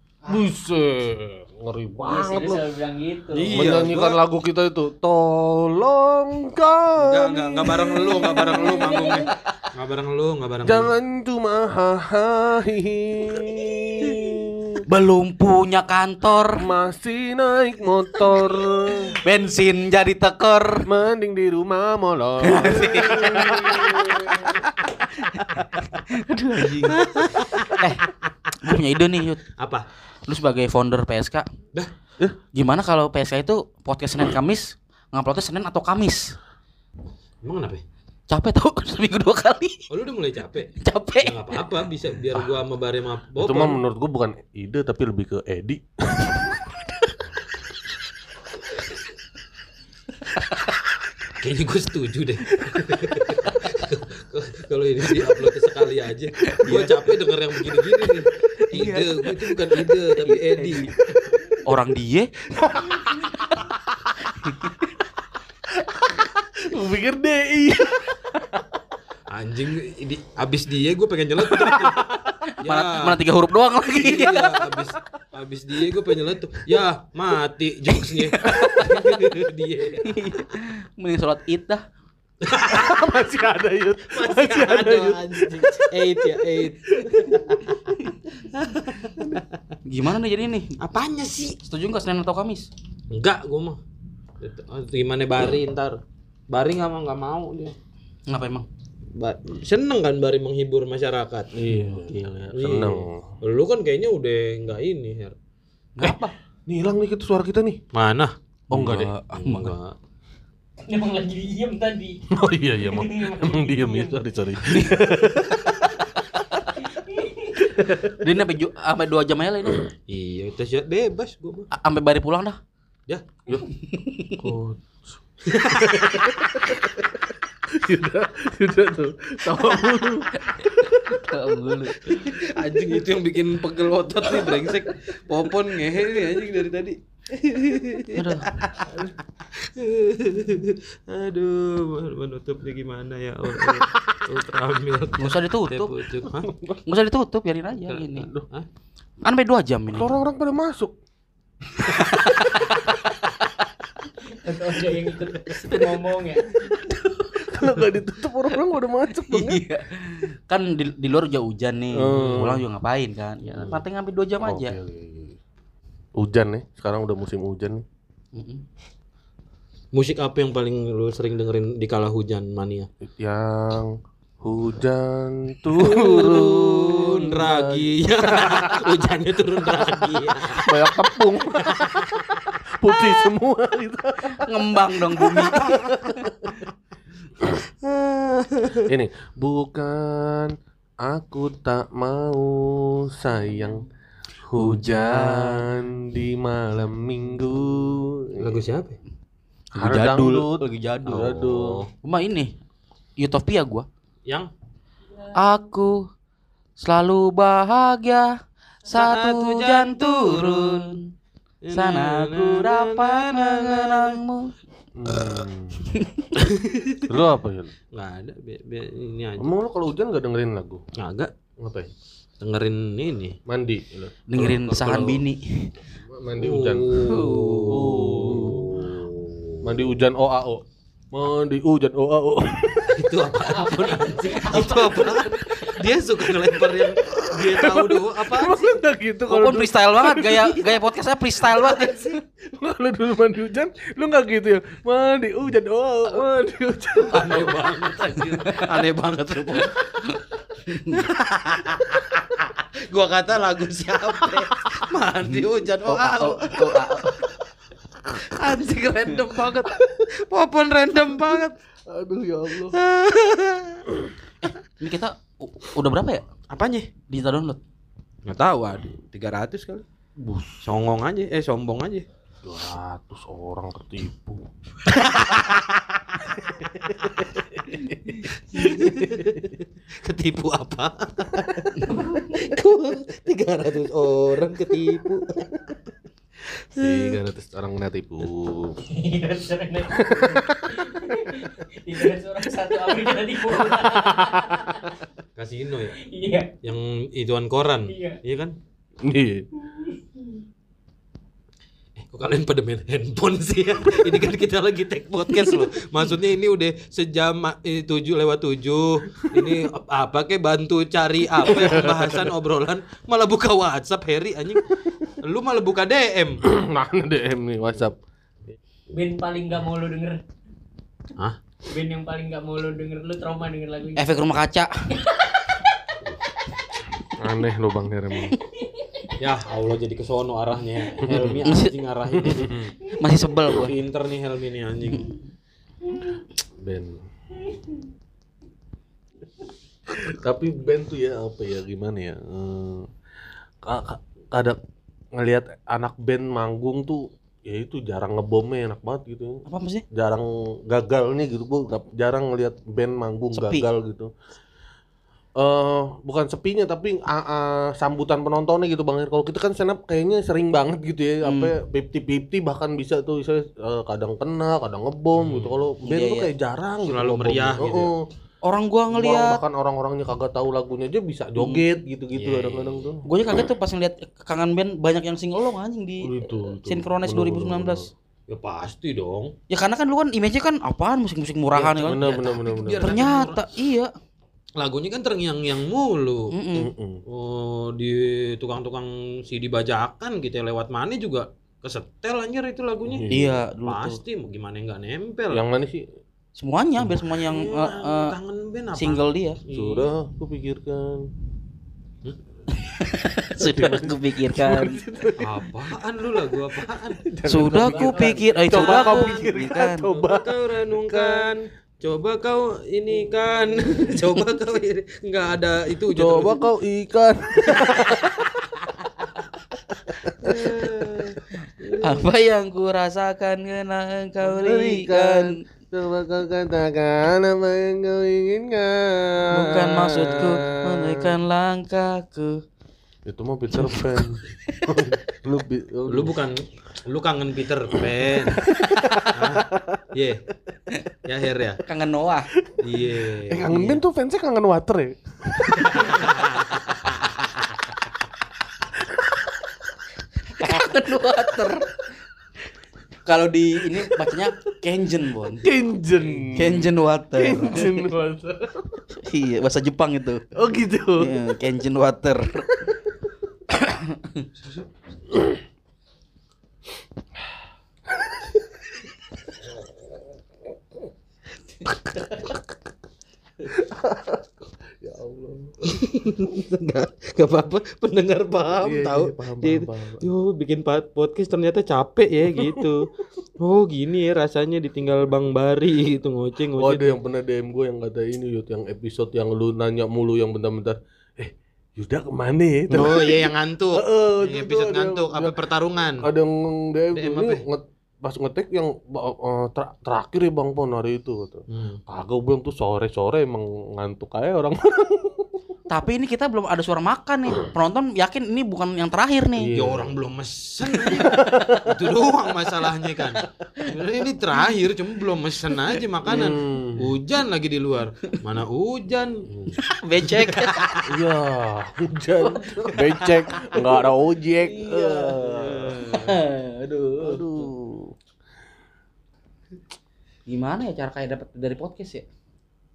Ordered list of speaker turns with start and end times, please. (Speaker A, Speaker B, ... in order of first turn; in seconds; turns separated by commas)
Speaker A: 0.3-2.6, Speaker B: 2.0-3.6, Speaker C: 3.3-4.2, Speaker A: 3.5-9.2, Speaker C: 7.0-10.9, Speaker D: 8.0-9.7, Speaker A: 10.6-14.8, Speaker D: 14.9-16.7, Speaker A: 16.6-19.2, Speaker D: 19.2-20.9, Speaker A: 20.9-24.5, Speaker D: 22.4-23.8, Speaker C: 22.8-24.0, Speaker D: 25.2-27.0, Speaker C: 26.8-27.8, Speaker D: 27.6-28.0, Speaker D: 28.6-29.4, Speaker C: 29.6-29.8, Speaker D: 30.3-31.5, Speaker D: 32.5-36.3, Speaker C: 37.4-37.8, Speaker D: 38.3-39.8, Speaker C: 39.9-43.8, Speaker D: 40.8-41.6, Speaker A: 43.4-46.5, Speaker D: 50.5-50.9, Speaker C: 51.4-60.9, Speaker D: 56.5-57.0, Speaker D: 58.6-59.3, Speaker D: 60.0-60.9, Speaker D: 61.6-62.3, Speaker A: 62.6-63.7, Speaker A: 65.7-68.3, Speaker C: 69.3-72.0, Speaker A: 71.4-72.3, Speaker D: 72.6-74.7, Speaker C: 72.6-73.2, Speaker C: 73.9-80.1, Speaker D: 78.2-79.1, Speaker D: 80.0-81.8, Speaker C: 82.4-83.0, Speaker A: 82.6-87.6, Speaker C: 84.1-87.7, Speaker C: 88.5-89.4, Speaker D: 89.8-90.7, Speaker C: 90.8-91.6, Speaker D: 91.6-92.7, Speaker C: 93.1-93.8, Speaker C: 94.4-97.7, Speaker D: 98.3-98.7, Speaker C: 99.2-101.8, Speaker A: 101.5-103.3, Speaker C: 102.5-105.3, Speaker D: 106.0-106.3, Speaker A: 106.0-107.8, Speaker C: 107.9-108.3, Speaker D: 108.7-109.7, Speaker A: 108.7-109.1, Speaker C: 109.3-109.9, Speaker B: 110.8-112.2, Speaker A: 112.3-116.0, Speaker B: 112.8-114.2, Speaker D: 114.7-115.0, Speaker B: 116.8-117.6, Speaker A: 117.6-118.1, Speaker D: 118.2-119.9, Speaker C: 120.1-121.7, Speaker D: 121.7-122.6, Speaker D: 123.5-124.5, Speaker A: 124.4-127.0, Speaker C: 125.5-126.2, Speaker A: 127.7-131.3, Speaker D: 130.5-132.4, Speaker C: 132.1-139.0, Speaker D: 138.1-138.5, Speaker A: 138.8-139.1, Speaker C: 139.5-146.5, Speaker A: 143.6-143.8, Speaker D: 145.2-145.9, Speaker D: 146.8-148.3, Speaker C: 147.9-148.7, Speaker A: 148.2-148.4, Speaker D: 149.2-150.1, Speaker A: 149.9-150.9, Speaker D: 151.8-152.9, Speaker B: 154.2-156.4, Speaker D: 155.6-156.0, Speaker D: 156.6-157.5, Speaker A: 157.4-159.6, Speaker D: 159.1-164.8, Speaker A: 161.9-162.7, Speaker C: 162.1-162.4, Speaker C: 163.5-163.8, Speaker A: 164.4-165.3, Speaker A: 166.2-167.8, Speaker D: 168.3-168.6, Speaker C: 169.9-172.9, Speaker A: 173.0-179.0, Speaker C: 175.8-180.7, Speaker A: 180.5-186.7, Speaker D: 184.3-186.3, Speaker C: 187.8-188.9, Speaker A: 188.8-193.8, Speaker A: 194.4-198.6, Speaker D: 194.5-195.7, Speaker C: 198.4-199.0, Speaker D: 199.7-202.5, Speaker A: 199.8-201.8, Speaker C: 201.1-201.8, Speaker D: 203.2-203.8, Speaker D: 205.4-205.9, Speaker D: 206.8-208.3, Speaker D: 208.8-211.0, Speaker C: 208.9-210.9, Speaker C: 211.6-214.2, Speaker D: 211.7-214.5, Speaker A: 214.9-215.9, Speaker D: 215.9-216.3, Speaker C: 216.5-217.0, Speaker A: 217.1-217.7, Speaker C: 217.9-219.5, Speaker A: 219.4-220.8, Speaker C: 221.0-221.3, Speaker A: 221.6-221.9, Speaker C: 222.4-223.4, Speaker A: 223.5-225.2, Speaker D: 224.3-225.7, Speaker A: 226.0-229.1, Speaker C: 226.4-229.9, Speaker D: 227.0-228.6, Speaker A: 229.6-233.1, Speaker C: 232.9-238.8, Speaker B: 233.5-235.1, Speaker A: 236.9-240.7, Speaker D: 239.3-242.2, Speaker C: 241.5-242.2, Speaker A: 242.5-247.7, Speaker C: 247.0-249.8, Speaker D: 248.4-251.1, Speaker C: 250.9-257.1, Speaker D: 255.8-257.3, Speaker C: 258.1-261.6, Speaker A: 261.9-262.8, Speaker C: 262.7-263.8, Speaker D: 264.4-266.2, Speaker C: 266.5-266.9, Speaker D: 267.1-267.6, Speaker C: 268.2-269.8, Speaker A: 270.2-270.6, Speaker C: 270.6-272.1, Speaker A: 272.4-274.4, Speaker C: 274.9-276.1, Speaker C: 277.0-277.3, Speaker A: 277.7-279.4, Speaker C: 278.4-279.5, Speaker C: 280.0-285.6, Speaker C: 286.8-287.2, Speaker A: 286.8-288.8, Speaker B: 288.9-294.9, Speaker A: 289.9-290.9, Speaker A: 293.5-294.5, Speaker C: 295.4-296.0, Speaker B: 296.0-296.5, Speaker C: 296.6-298.5, Speaker B: 297.9-298.2, Speaker A: 299.0-299.4, Speaker C: 302.0-314.6, Speaker A: 311.4-312.3, Speaker C: 315.2-316.4, Speaker A: 316.5-318.0, Speaker B: 318.9-320.2, Speaker B: 321.7-324.1, Speaker D: 323.9-325.1, Speaker B: 325.0-325.6, Speaker A: 327.2-328.4, Speaker B: 328.7-329.1, Speaker C: 329.2-332.7, Speaker A: 331.0-331.4, Speaker D: 331.4-331.7, Speaker A: 332.1-332.6, Speaker D: 333.0-333.7, Speaker C: 333.5-335.1, Speaker A: 336.6-337.1, Speaker A: 339.9-342.9, Speaker A: 343.6-344.6, Speaker A: 345.1-354.1, Speaker D: 349.5-349.8, Speaker D: 353.3-353.6, Speaker A: 355.4-368.0, Speaker D: 361.2-361.5, Speaker C: 365.1-365.6, Speaker D: 365.8-366.3, Speaker C: 366.8-367.9, Speaker D: 368.4-369.4, Speaker A: 368.9-373.0, Speaker D: 371.4-371.6, Speaker C: 372.1-372.9, Speaker D: 373.0-377.9, Speaker A: 376.0-377.9, Speaker C: 378.3-379.3, Speaker D: 379.5-382.1, Speaker C: 381.5-383.4, Speaker A: 381.8-383.0, Speaker D: 382.8-383.9, Speaker C: 384.6-386.3, Speaker D: 386.3-386.7, Speaker A: 386.5-387.0, Speaker C: 387.1-393.1, Speaker A: 392.8-393.3, Speaker D: 393.1-394.0, Speaker C: 393.6-395.4, Speaker A: 395.3-395.8, Speaker D: 396.4-398.1, Speaker C: 396.9-399.9, Speaker D: 398.8-399.4, Speaker A: 399.5-401.1, Speaker D: 402.5-404.8, Speaker A: 403.4-405.5, Speaker C: 405.2-407.0, Speaker A: 407.0-411.3, Speaker D: 407.2-409.9, Speaker B: 407.5-408.8, Speaker C: 408.5-409.2, Speaker C: 409.8-416.4, Speaker A: 415.9-418.4, Speaker C: 417.4-417.9, Speaker A: 419.8-421.8, Speaker C: 420.2-421.9, Speaker D: 421.8-425.4, Speaker A: 424.2-431.1, Speaker D: 429.3-432.4, Speaker A: 433.1-436.1, Speaker D: 433.5-434.9, Speaker C: 435.9-438.5, Speaker A: 438.2-439.8, Speaker C: 439.1-440.2, Speaker C: 441.1-441.6, Speaker D: 441.6-442.3, Speaker C: 442.6-443.8, Speaker A: 442.7-446.4, Speaker D: 443.5-443.8, Speaker C: 445.8-446.3, Speaker D: 450.4-451.8, Speaker D: 453.1-455.5, Speaker A: 455.4-458.8, Speaker C: 455.9-456.5, Speaker D: 456.3-457.9, Speaker D: 458.9-460.2, Speaker A: 460.3-461.2, Speaker D: 461.0-462.7, Speaker D: 463.5-464.3, Speaker A: 471.6-472.4, Speaker A: 473.5-475.5, Speaker C: 475.7-482.9, Speaker A: 478.6-480.1, Speaker C: 483.4-487.0, Speaker A: 486.6-495.3, Speaker C: 492.7-496.0, Speaker A: 496.0-505.3, Speaker C: 496.9-497.4, Speaker C: 501.5-501.8, Speaker D: 505.7-509.5, Speaker A: 509.4-509.9, Speaker C: 509.5-519.2, Speaker A: 510.8-511.7, Speaker A: 516.1-516.9, Speaker A: 519.3-519.6, Speaker D: 519.6-520.9, Speaker A: 520.9-525.9, Speaker D: 522.2-523.9, Speaker D: 524.4-527.5, Speaker C: 525.3-526.2, Speaker A: 527.0-527.9, Speaker D: 530.3-532.0